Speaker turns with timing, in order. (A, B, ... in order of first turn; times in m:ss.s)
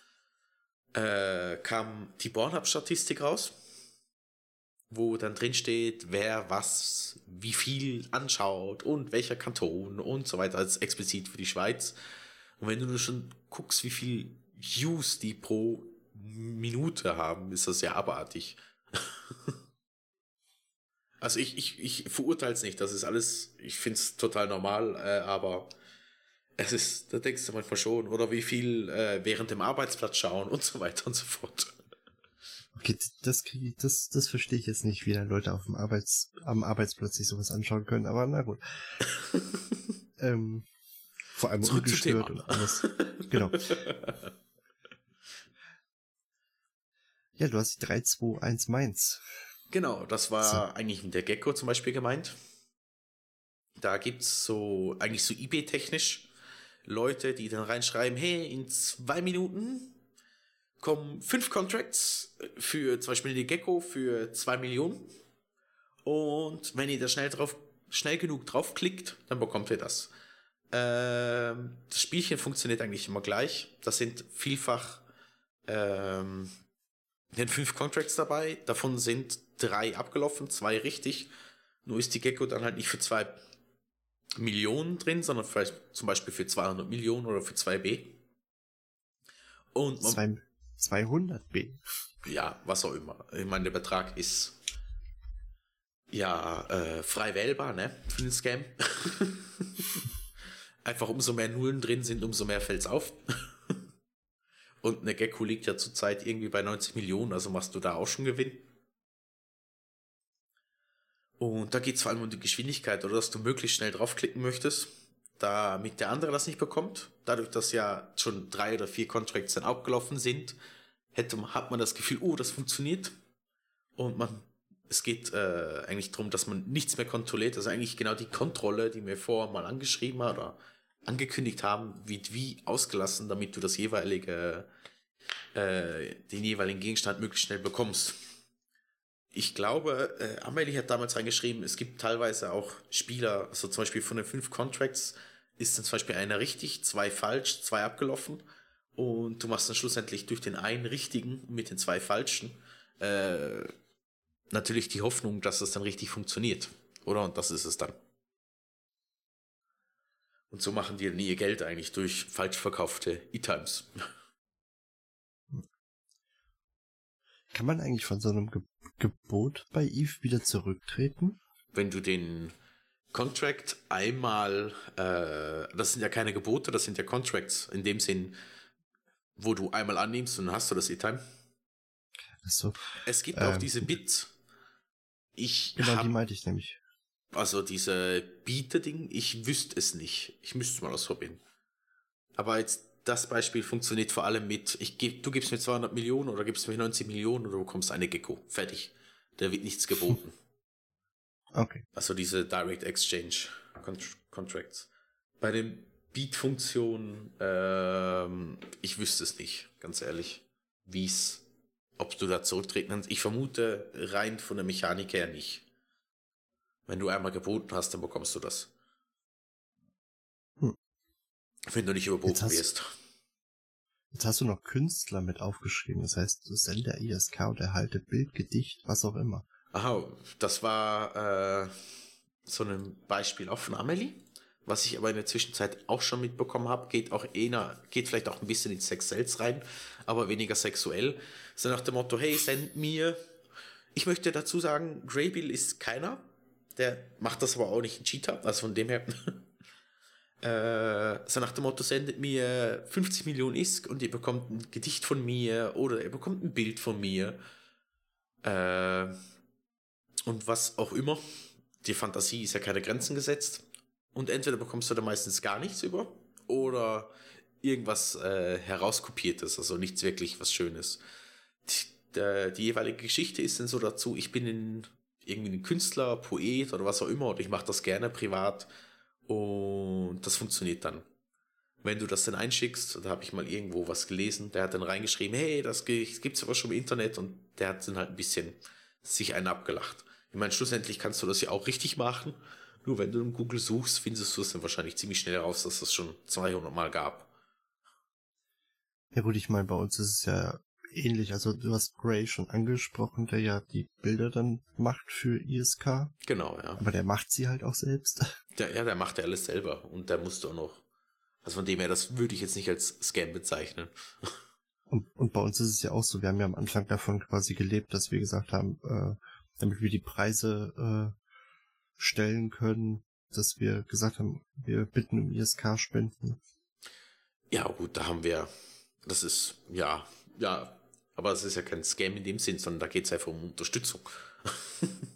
0:00.9-0:03.5 A
0:04.9-0:12.0 A
0:12.6-0:19.6 A
0:21.2-0:25.7 A
0:26.6-0:31.7 A
0:32.7-0:39.0 B
0:39.1-0:39.6 A
0:40.2-0:40.7 B
0:41.3-0:43.9 B
0:41.6-0:44.3 A
0:47.4-0:49.2 B
0:49.7-0:52.4 A
0:53.8-0:56.3 A
0:56.8-1:00.0 A
1:00.8-1:05.1 A
1:06.0-1:10.1 A
1:10.7-1:15.0 A
1:15.7-1:16.5 A
1:17.3-1:21.3 A
1:21.8-1:23.4 A
1:24.4-1:28.2 A
1:29.7-1:30.2 A
1:30.0-1:31.8 B
1:32.2-1:34.5 A
1:36.1-1:40.1 A
1:40.8-1:43.8 A
1:44.8-1:48.6 A
1:51.4-2:00.6 A
2:01.1-2:03.1 A
2:04.0-2:14.7 A
2:15.5-2:18.2 A
2:19.3-2:28.4 A
2:29.0-2:33.7 A
2:34.5-2:38.0 A
2:40.5-2:43.9 A
2:47.5-2:51.4 B
2:51.7-2:52.5 A
2:53.1-2:58.4 A
2:59.4-3:01.2 A
3:02.4-3:03.9 B
3:03.0-3:04.3 A
3:05.4-3:06.1 A
3:05.8-3:06.8 B
3:07.3-3:11.4 A
3:12.4-3:20.4 A
3:21.5-3:21.8 B
3:21.9-3:24.9 A
3:25.4-3:31.4 A
3:32.0-3:35.6 A
3:36.9-3:38.7 A
3:41.7-3:42.9 A
3:42.2-3:42.6 B
3:44.1-3:49.4 B
3:49.7-3:51.7 A
3:52.4-4:03.2 A
4:03.9-4:09.4 A
4:10.4-4:17.4 A
4:18.4-4:19.2 A
4:20.2-4:21.2 A
4:21.8-4:31.0 A
4:31.6-4:38.7 A
4:39.3-4:41.0 A
4:41.8-4:57.3 A
4:59.1-5:06.1 B
5:06.2-5:06.8 A
5:06.8-5:08.3 B
5:08.6-5:10.8 A
5:11.4-5:14.3 A
5:14.9-5:21.2 B
5:22.0-5:26.4 B
5:27.5-5:28.5 A
5:29.0-5:34.9 A